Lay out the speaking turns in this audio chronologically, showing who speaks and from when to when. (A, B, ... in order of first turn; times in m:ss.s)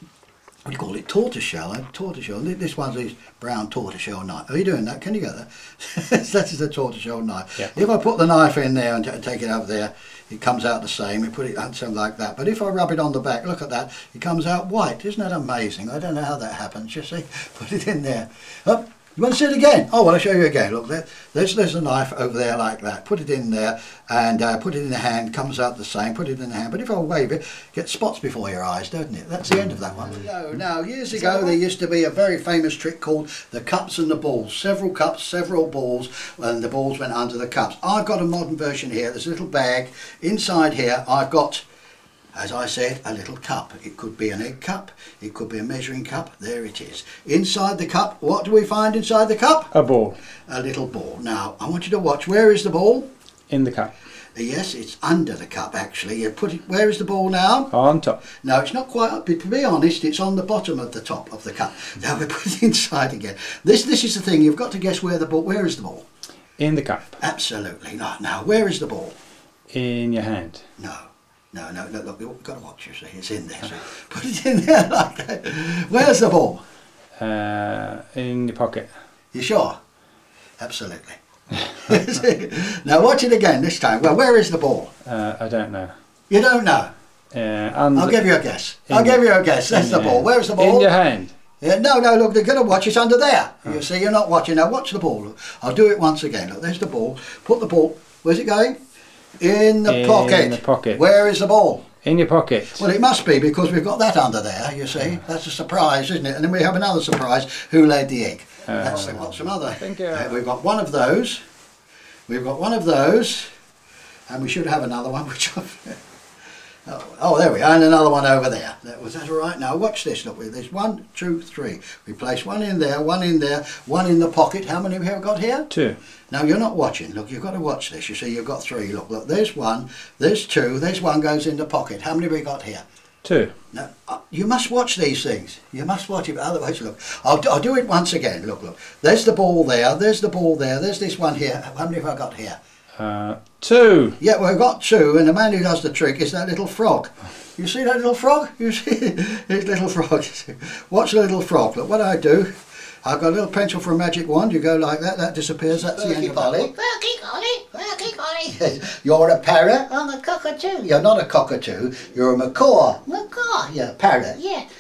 0:00.6-0:41.6 A
0:42.3-0:49.7 A
0:49.7-0:50.2 B
0:50.5-0:53.1 A
0:53.5-0:53.9 B
0:54.4-0:57.7 A
0:57.7-0:58.2 B
0:58.4-1:06.0 A
1:06.6-1:07.2 B
1:07.2-1:09.2 A
1:09.7-1:10.6 B
1:10.8-1:16.6 A
1:17.2-1:18.9 B
1:19.3-1:19.8 A
1:20.6-1:21.2 A
1:21.7-1:24.9 A
1:25.0-1:25.9 B
1:26.3-1:26.9 A
1:27.3-1:28.3 B
1:28.0-1:30.9 A
1:28.9-1:31.3 B
1:31.6-1:38.8 A
1:39.4-1:41.9 A
1:39.9-1:41.0 B
1:42.0-1:42.8 B
1:42.8-1:51.4 A
1:48.7-1:50.5 B
1:52.3-1:53.5 A
1:54.3-1:56.0 A
1:56.9-2:05.7 A
2:05.7-2:06.0 B
2:06.3-2:12.8 A
2:13.2-2:13.5 B
2:13.7-2:22.6 A
2:23.0-2:24.2 B
2:24.2-2:32.5 A
2:33.0-2:36.7 A
2:35.7-2:38.8 C
2:38.8-2:39.9 A
2:39.9-2:41.0 C
2:40.8-2:43.1 A
2:43.1-2:43.7 C
2:43.6-2:44.4 A
2:44.3-2:44.7 C